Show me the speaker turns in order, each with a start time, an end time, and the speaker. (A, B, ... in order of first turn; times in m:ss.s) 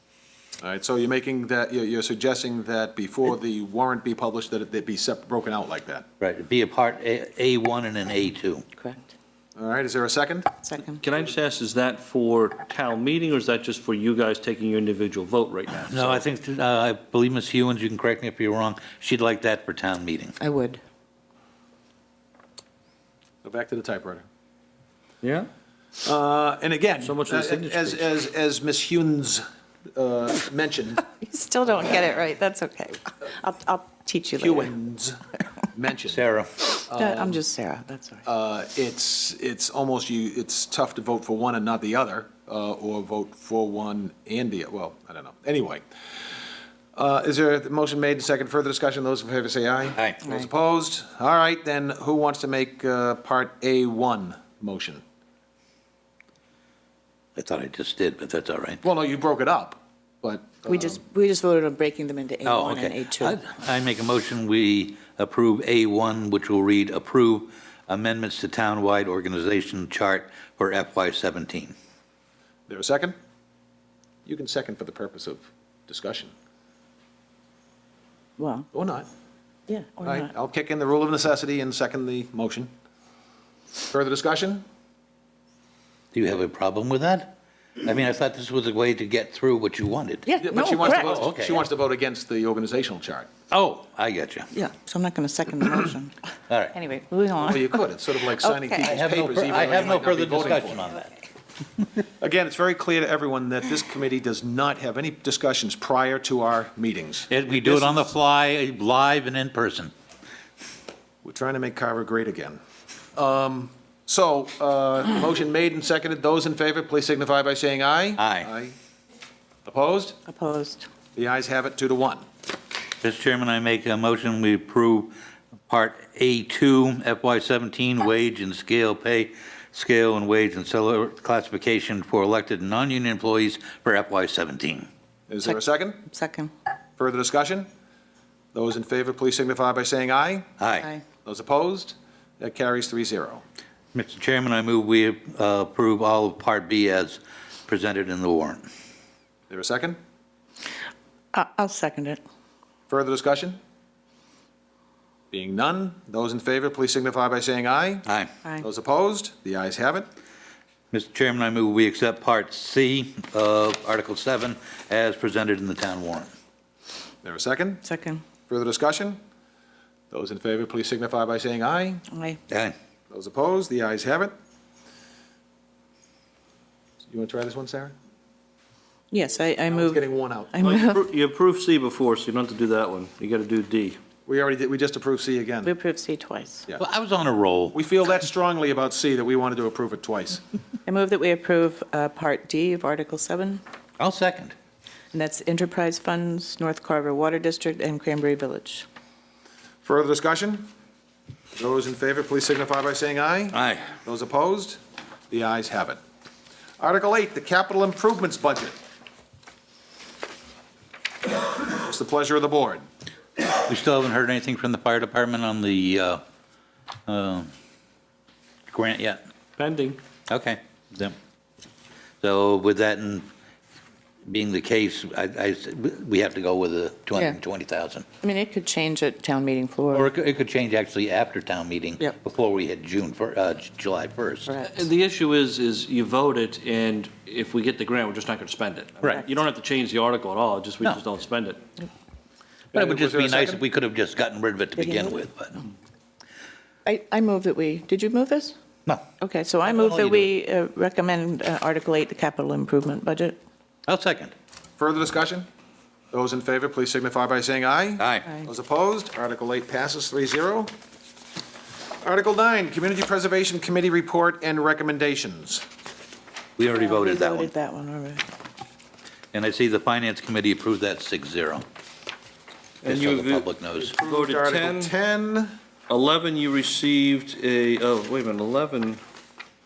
0:00.6-0:06.0 A
0:06.2-0:08.6 B
0:08.8-0:09.1 C
0:09.6-0:10.5 A
0:10.6-0:11.0 C
0:11.0-0:16.2 D
0:15.9-0:20.4 B
0:20.4-0:20.8 C
0:23.4-0:24.2 A
0:25.2-0:25.5 D
0:26.0-0:31.0 A
0:27.0-0:28.1 D
0:31.1-0:34.7 C
0:34.4-0:35.2 A
0:35.7-0:36.2 A
0:36.1-0:36.5 B
0:36.9-0:37.4 A
0:36.9-0:38.2 C
0:38.2-0:45.8 A
0:46.9-0:55.0 A
0:57.4-0:58.8 B
0:58.8-1:01.0 A
1:00.7-1:03.3 C
1:02.4-1:11.7 B
1:12.7-1:13.1 A
1:14.2-1:16.3 A
1:18.4-1:18.7 C
1:18.7-1:19.1 A
1:19.7-1:20.3 C
1:20.0-1:22.7 A
1:23.9-1:24.6 A
1:26.1-1:30.3 B
1:30.2-1:31.0 C
1:30.4-1:33.3 A
1:30.8-1:31.6 B
1:33.5-1:34.5 B
1:34.5-1:36.2 C
1:36.5-1:36.7 B
1:36.7-1:37.8 C
1:37.4-1:40.8 A
1:38.4-1:38.9 C
1:38.8-1:41.1 B
1:42.2-1:48.1 A
1:47.3-1:49.9 B
1:51.2-1:52.6 A
1:53.1-1:58.8 A
1:58.2-1:58.5 B
1:59.6-2:00.2 A
2:00.2-2:00.8 C
2:01.1-2:02.2 A
2:03.0-2:05.1 B
2:05.7-2:14.9 B
2:15.3-2:16.0 A
2:16.1-2:16.5 C
2:17.0-2:17.7 A
2:18.5-2:20.5 A
2:20.6-2:20.9 B
2:21.2-2:23.4 A
2:23.9-2:28.7 B
2:29.5-2:30.0 A
2:31.3-2:32.2 C
2:32.9-2:33.6 A
2:35.3-2:38.0 A
2:38.0-2:38.3 B
2:38.6-2:40.1 A
2:40.9-2:46.3 B
2:47.2-2:47.8 A
2:47.8-2:48.2 C
2:48.5-2:49.2 A
2:50.1-2:52.0 A
2:52.1-2:52.4 C
2:52.5-2:52.7 B
2:53.1-2:54.3 A
2:57.1-2:57.9 A
2:59.1-3:00.0 C
2:59.7-3:00.6 A
3:00.5-3:01.0 C
3:00.6-3:04.0 D
3:04.3-3:05.7 A
3:05.6-3:06.7 C
3:06.8-3:07.8 B
3:07.7-3:10.4 A
3:10.8-3:13.6 C
3:14.0-3:14.5 B
3:15.1-3:18.8 C
3:19.8-3:20.7 A
3:21.6-3:26.0 A
3:23.5-3:23.9 B
3:26.8-3:28.8 A
3:31.6-3:32.8 A
3:33.6-3:36.2 B
3:37.1-3:37.5 B
3:38.7-3:39.2 B
3:39.6-3:40.0 D
3:40.3-3:41.2 B
3:42.2-3:43.3 B
3:44.2-3:48.0 B
3:48.2-3:50.1 C
3:49.9-3:54.6 B
3:54.6-4:01.6 D
4:02.7-4:03.6 A
4:02.7-4:05.6 B
4:04.8-4:05.2 C
4:06.8-4:08.6 C
4:09.2-4:13.4 C
4:09.7-4:10.3 B
4:13.9-4:14.3 B
4:14.8-4:15.5 A
4:16.1-4:20.7 A
4:18.0-4:18.3 B
4:22.0-4:25.6 A
4:26.6-4:27.5 B
4:26.7-4:28.2 C
4:29.3-4:31.6 B
4:32.8-4:34.9 D
4:32.8-4:33.9 B
4:33.8-4:35.5 A
4:35.9-4:39.0 D